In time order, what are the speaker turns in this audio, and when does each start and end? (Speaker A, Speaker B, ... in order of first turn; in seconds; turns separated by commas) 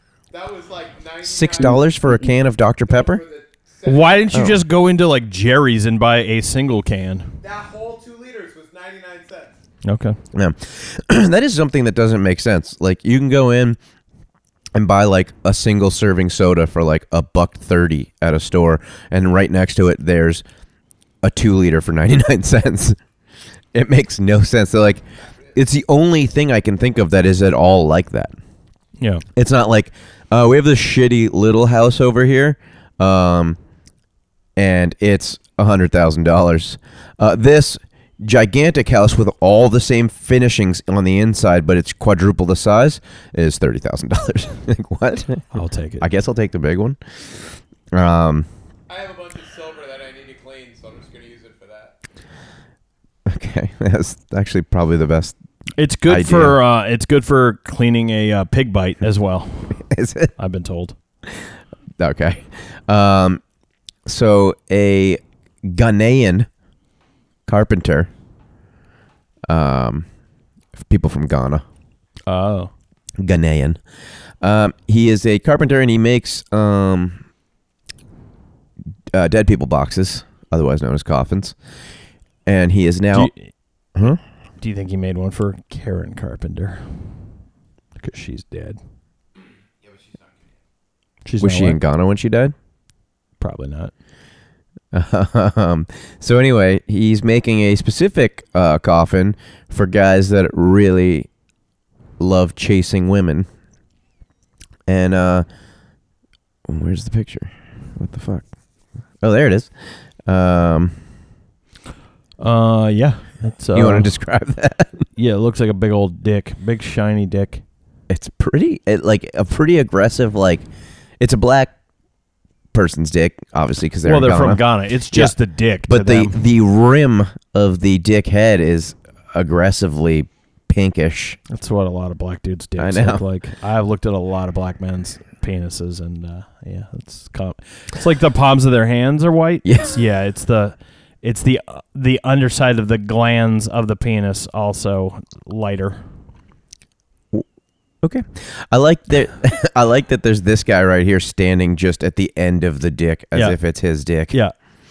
Speaker A: 0.3-1.9, Speaker B: 1.2-3.2, Speaker A: 2.9-4.3, Speaker C: 3.9-7.3, Speaker B: 4.3-4.6, Speaker A: 7.4-9.6, Speaker C: 9.8-10.2, Speaker B: 10.3-13.8, Speaker B: 14.8-20.4, Speaker B: 21.2-23.0, Speaker B: 23.7-25.0, Speaker B: 25.5-28.3, Speaker C: 29.0-29.2, Speaker B: 29.4-33.6, Speaker B: 34.6-45.5, Speaker C: 45.5-46.1, Speaker B: 46.0-47.0, Speaker B: 47.9-48.5, Speaker A: 48.9-52.0, Speaker B: 53.3-55.4, Speaker C: 55.8-59.8, Speaker B: 56.1-56.6, Speaker B: 59.8-60.3, Speaker C: 60.4-61.0, Speaker B: 62.0-63.4, Speaker B: 64.1-66.5, Speaker B: 67.5-68.1, Speaker B: 69.5-70.1, Speaker B: 70.8-71.7, Speaker C: 72.3-72.7, Speaker B: 73.2-73.8, Speaker B: 74.4-77.2, Speaker B: 79.1-81.6, Speaker B: 82.5-83.3, Speaker C: 83.1-83.5, Speaker B: 84.0-84.2, Speaker C: 84.6-87.2, Speaker C: 88.0-88.8, Speaker A: 89.8-90.5, Speaker C: 91.2-91.8, Speaker B: 91.4-92.5, Speaker C: 93.4-93.9, Speaker B: 94.9-101.3, Speaker B: 102.2-103.5, Speaker B: 104.9-105.5, Speaker B: 106.7-108.5, Speaker B: 109.2-111.0, Speaker C: 112.4-114.1, Speaker B: 113.7-115.0, Speaker C: 115.2-117.6, Speaker B: 118.1-120.7, Speaker B: 121.2-121.7, Speaker B: 122.7-131.4, Speaker C: 124.0-126.4, Speaker C: 131.5-146.0, Speaker B: 132.8-133.2, Speaker B: 139.7-140.0, Speaker B: 148.0-154.4